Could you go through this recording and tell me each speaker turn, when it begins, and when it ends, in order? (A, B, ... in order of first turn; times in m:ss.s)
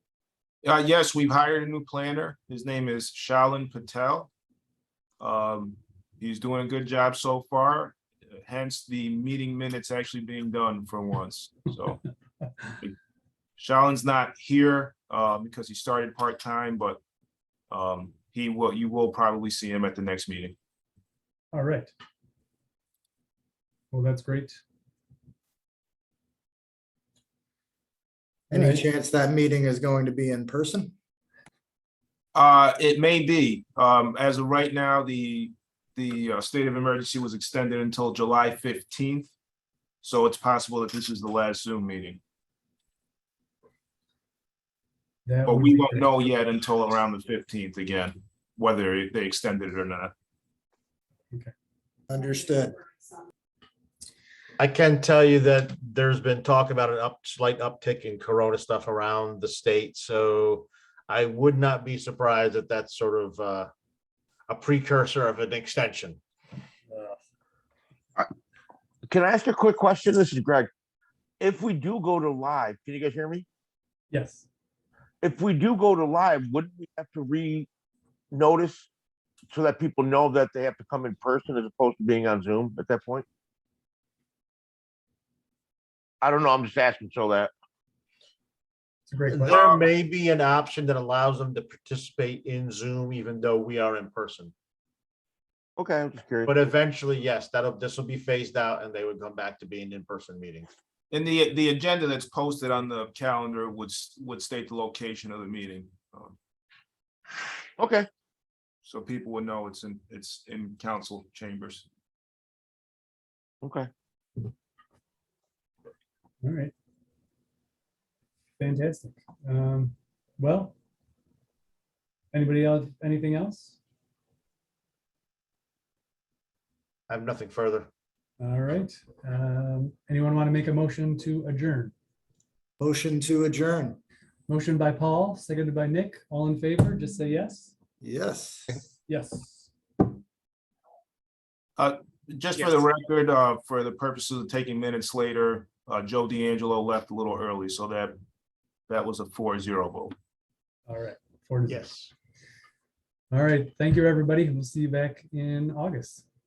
0:00.6-0:04.3 A
0:05.2-0:12.0 A
0:13.6-0:17.0 A
0:17.7-0:20.6 A
0:21.5-0:21.9 B
0:23.9-0:24.6 B
0:28.5-0:31.0 C
0:28.5-0:28.8 B
0:32.4-0:39.3 A
0:40.0-0:42.2 A
0:45.3-0:46.1 B
0:45.4-0:50.1 A
0:52.1-0:52.8 C
0:54.6-1:03.7 D
1:04.5-1:06.2 D
1:09.1-1:10.7 E
1:11.4-1:13.4 E
1:14.1-1:14.4 B
1:15.2-1:17.7 E
1:18.3-1:18.9 E
1:19.5-1:23.2 E
1:26.2-1:27.5 E
1:29.1-1:29.6 B
1:29.3-1:34.5 D
1:29.5-1:29.8 A
1:35.8-1:36.5 E
1:36.5-1:40.7 D
1:41.1-1:46.4 A
1:47.8-1:48.1 E
1:48.8-1:51.9 A
1:53.6-1:53.9 E
1:56.4-1:56.7 B
1:58.6-2:00.7 B
2:02.3-2:03.8 B
2:07.1-2:07.9 D
2:08.4-2:11.9 B
2:12.8-2:14.0 C
2:14.5-2:17.7 B
2:18.0-2:18.8 C
2:19.1-2:19.7 B
2:21.8-2:28.2 A
2:28.9-2:30.1 A
2:30.9-2:31.8 B
2:31.7-2:32.1 D
2:33.3-2:36.2 B